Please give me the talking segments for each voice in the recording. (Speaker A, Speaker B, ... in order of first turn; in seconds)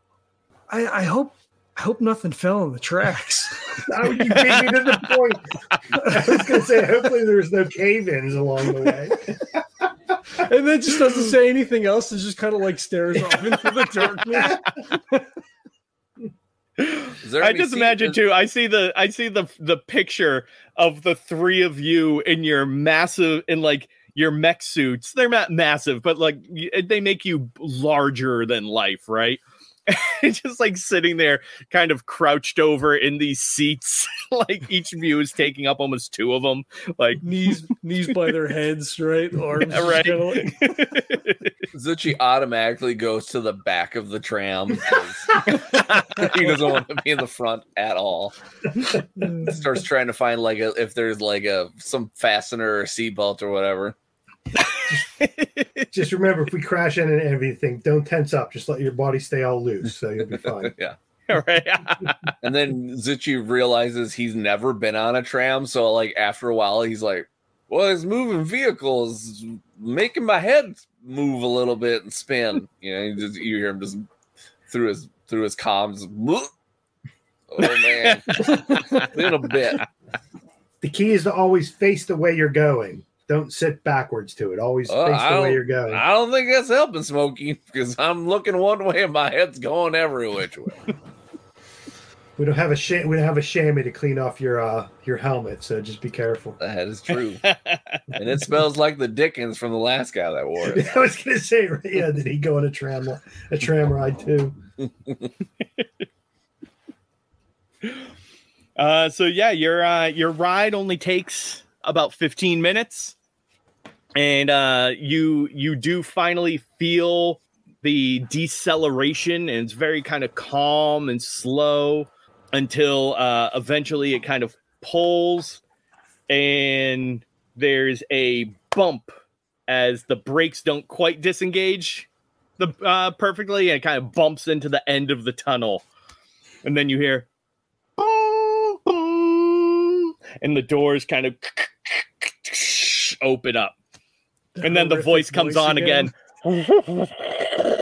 Speaker A: 0.7-3.9, 6.0-6.4, 10.3-15.2, 37.2-40.8, 49.2-49.5, 144.6-146.1
Speaker B: 3.9-9.9, 55.9-60.7, 80.8-86.0, 92.4-96.6, 100.6-104.6
Speaker C: 16.8-37.2, 39.6-41.6, 45.5-46.3, 54.6-55.9, 61.3-62.4, 77.6-79.8, 97.4-98.0, 108.8-113.2, 114.2-125.6, 126.3-129.1, 129.7-132.1, 132.6-135.8, 136.6-137.3, 138.0-143.8, 144.6-147.2
Speaker D: 17.2-18.2, 41.7-54.0, 60.6-61.0, 62.4-74.1, 74.7-76.5, 77.5-79.9, 84.9-91.0, 96.6-97.4, 98.2-100.9